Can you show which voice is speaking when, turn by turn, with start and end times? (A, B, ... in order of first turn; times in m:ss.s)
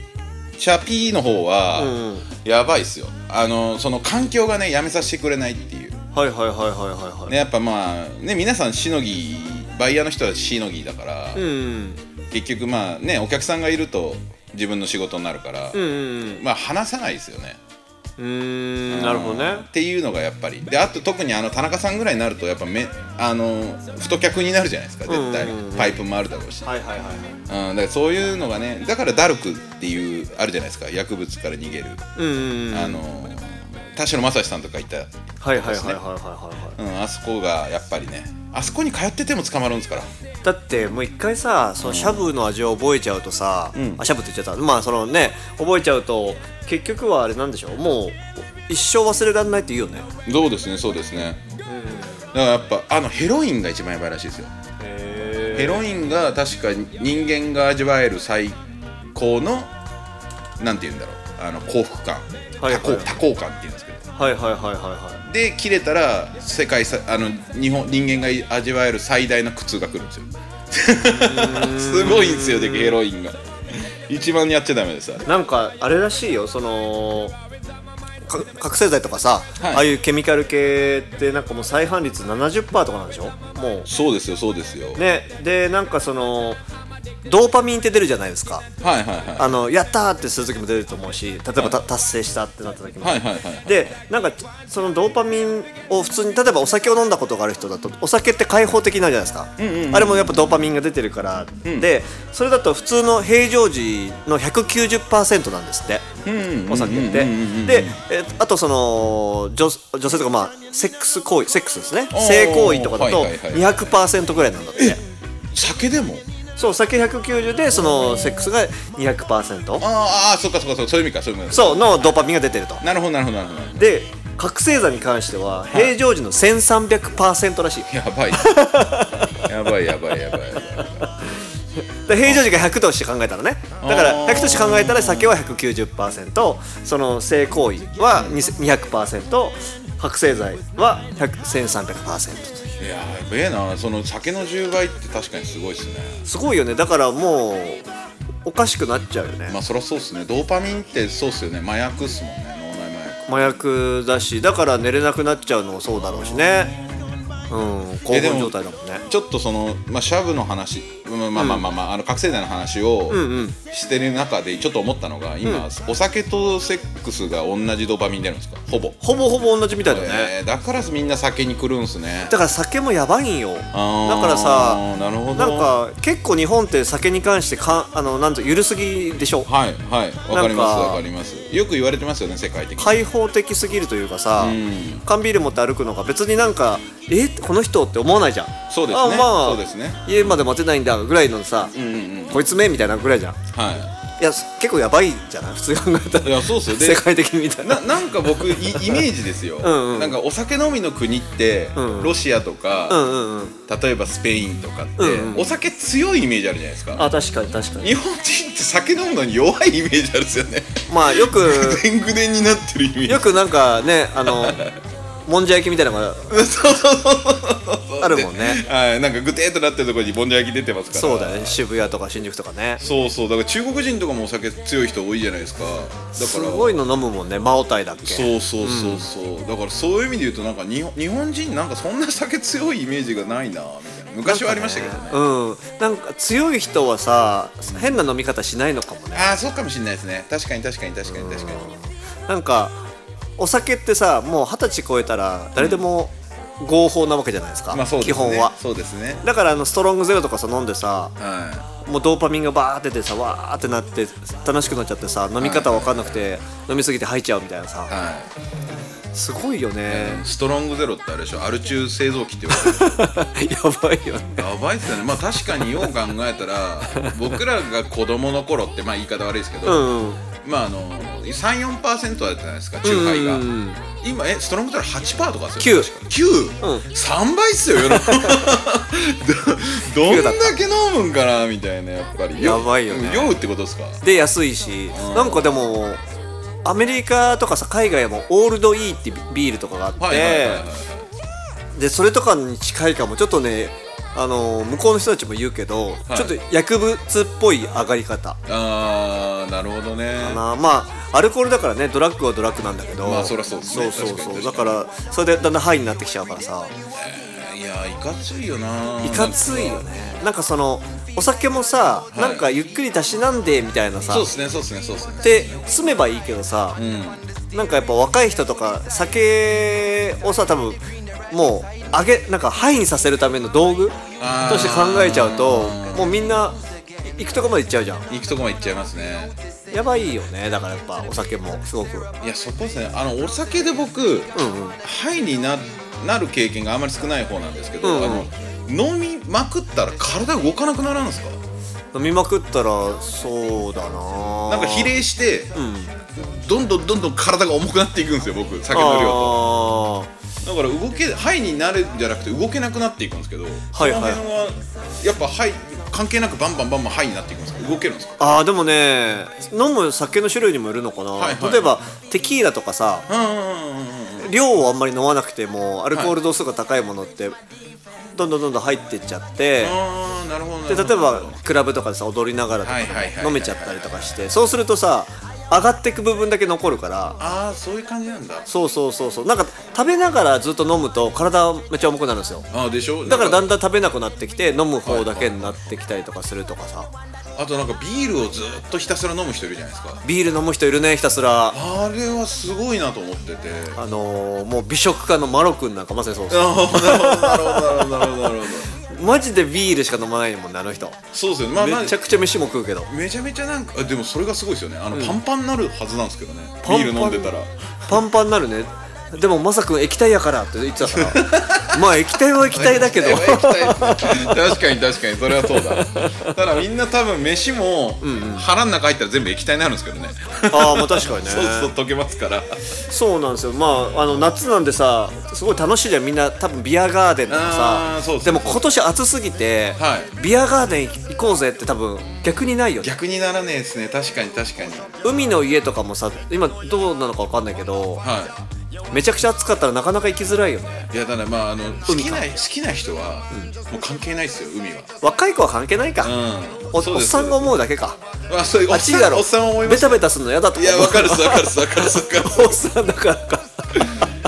0:00.6-0:06.0 A
0:01.7-0:02.2 B
0:06.1-0:07.4 B
0:07.3-0:11.4 A
0:11.3-0:12.0 B
0:12.3-0:15.8 A
0:15.7-0:16.4 B
0:16.3-0:17.6 A
0:18.2-0:19.7 B
0:18.9-0:26.7 A
0:25.1-0:26.0 B
0:26.6-0:27.4 B
0:27.5-0:32.0 A
0:32.2-0:33.0 B
0:32.7-0:36.0 A
0:35.4-0:36.8 B
0:36.8-0:40.1 A
0:40.4-0:50.1 B
0:41.8-0:42.3 A
0:43.7-0:44.0 A
0:50.2-0:51.4 A
0:51.7-0:52.2 B
0:52.3-0:54.5 A
0:54.8-0:55.8 B
0:55.5-0:58.6 A
0:59.1-0:59.7 A
1:00.6-1:04.1 A
1:02.6-1:03.2 B
1:04.2-1:05.2 B
1:05.2-1:15.2 A
1:11.0-1:13.0 B
1:15.2-1:17.4 B
1:18.2-1:23.9 B
1:19.6-1:19.9 A
1:23.8-1:25.0 A
1:24.9-1:26.6 B
1:27.2-1:28.7 B
1:28.8-1:29.5 A
1:29.4-1:46.1 B
1:33.0-1:33.9 A
1:39.6-1:40.7 A
1:46.2-1:48.0 A
1:46.7-1:55.0 B
1:52.1-1:54.0 A
1:55.5-1:56.2 A
1:56.6-1:59.8 B
1:59.8-2:02.1 A
2:01.5-2:02.8 B
2:02.8-2:03.9 A
2:03.8-2:09.4 B
2:05.7-2:06.0 A
2:07.9-2:08.6 A
2:09.4-2:11.2 A
2:12.0-2:22.7 B
2:12.2-2:12.6 A
2:13.8-2:15.4 A
2:18.1-2:18.4 A
2:22.8-2:26.2 A
2:26.2-2:27.9 B
2:28.4-2:29.6 B
2:29.5-2:33.2 A
2:33.3-2:36.7 B
2:35.9-2:37.4 A
2:37.5-2:39.0 B
2:38.1-2:49.0 A
2:41.3-2:41.6 B
2:43.1-2:43.6 B
2:49.0-2:50.3 B
2:49.8-2:52.3 A
2:52.3-2:59.5 B
2:53.7-2:55.7 A
2:59.4-3:03.1 A
3:00.3-3:01.0 B
3:02.8-3:11.7 B
3:04.4-3:05.0 A
3:08.7-3:10.4 A
3:11.7-3:12.5 A
3:12.3-3:13.4 B
3:13.5-3:13.9 A
3:14.2-3:19.1 B
3:16.2-3:17.0 A
3:17.6-3:23.0 A
3:19.6-3:20.2 B
3:21.7-3:22.2 B
3:22.9-3:23.6 B
3:23.7-3:27.0 A
3:25.0-3:25.5 B
3:26.9-3:27.9 B
3:27.8-3:33.6 A
3:30.9-3:31.8 B
3:33.1-3:34.6 B
3:34.2-3:34.8 A
3:35.2-3:36.4 B
3:36.3-3:41.6 A
3:38.0-3:38.6 B
3:40.9-3:42.8 B
3:42.8-3:46.8 A
3:46.1-3:49.1 B
3:48.0-3:55.2 A
3:54.2-3:59.4 B
3:57.7-3:58.0 A
3:59.1-4:01.7 A
4:01.1-4:02.8 B
4:03.4-4:08.6 B
4:05.6-4:05.8 A
4:07.7-4:09.2 A
4:09.2-4:11.2 B
4:11.2-4:11.7 A
4:11.8-4:17.9 B
4:15.4-4:16.3 A
4:17.9-4:18.3 A
4:19.1-4:20.2 B
4:19.9-4:23.0 A
4:22.5-4:24.5 B
4:24.4-4:29.9 A
4:29.6-4:30.2 B
4:30.4-4:33.5 A
4:32.8-4:33.8 B
4:34.0-4:44.0 A
4:35.6-4:35.9 B
4:36.6-4:36.9 B
4:37.8-4:38.5 B
4:39.9-4:40.6 B
4:42.4-4:43.4 B
4:44.0-4:46.0 B
4:44.9-4:45.7 A
4:46.6-4:50.6 B
4:50.0-4:51.1 A
4:51.7-4:58.4 B
4:56.1-4:56.3 A
4:58.5-5:00.4 A
5:00.2-5:06.7 B
5:03.0-5:04.8 A
5:06.9-5:10.0 A
5:09.0-5:14.3 B
5:12.1-5:12.5 A
5:14.1-5:15.7 A
5:15.2-5:16.8 B
5:16.8-5:17.2 A
5:17.5-5:28.1 B
5:24.2-5:26.4 A
5:28.1-5:29.3 A
5:29.7-5:32.1 B
5:32.2-5:41.4 A
5:34.3-5:34.8 B
5:37.8-5:38.3 B
5:41.9-5:45.0 B
5:44.5-5:45.5 A
5:45.5-5:45.9 B
5:46.1-5:49.4 A
5:48.7-5:50.1 B
5:50.4-5:58.4 A
5:53.7-5:54.2 B
5:58.2-6:03.1 B
6:01.2-6:01.8 A
6:03.1-6:04.3 A
6:04.2-6:07.4 B
6:08.1-6:09.8 B
6:09.6-6:11.4 A
6:10.7-6:17.2 B
6:12.6-6:14.4 A
6:17.2-6:18.5 A
6:18.5-6:22.5 B
6:22.5-6:23.5 A
6:23.0-6:26.9 B
6:24.8-6:25.5 A
6:27.4-6:30.0 A
6:30.0-6:31.6 B
6:31.5-6:33.8 A
6:33.8-6:41.0 B
6:36.3-6:38.7 A
6:41.1-6:42.1 A
6:41.6-6:42.9 B
6:42.9-6:48.0 A
6:46.6-6:47.3 B
6:47.9-6:54.6 B
6:50.9-7:02.6 A
6:55.3-6:56.4 B
6:58.0-6:58.5 B
7:00.5-7:01.7 B
7:02.9-7:12.9 B
7:07.3-7:08.8 A
7:09.8-7:10.1 A
7:12.8-7:15.0 A
7:15.0-7:18.0 B
7:18.0-7:18.4 A
7:18.9-7:20.9 B
7:20.9-7:24.9 A
7:21.9-7:22.3 B
7:25.0-7:26.1 B
7:26.0-7:27.6 A
7:26.7-7:28.0 B
7:28.3-7:32.7 A
7:28.7-7:34.1 B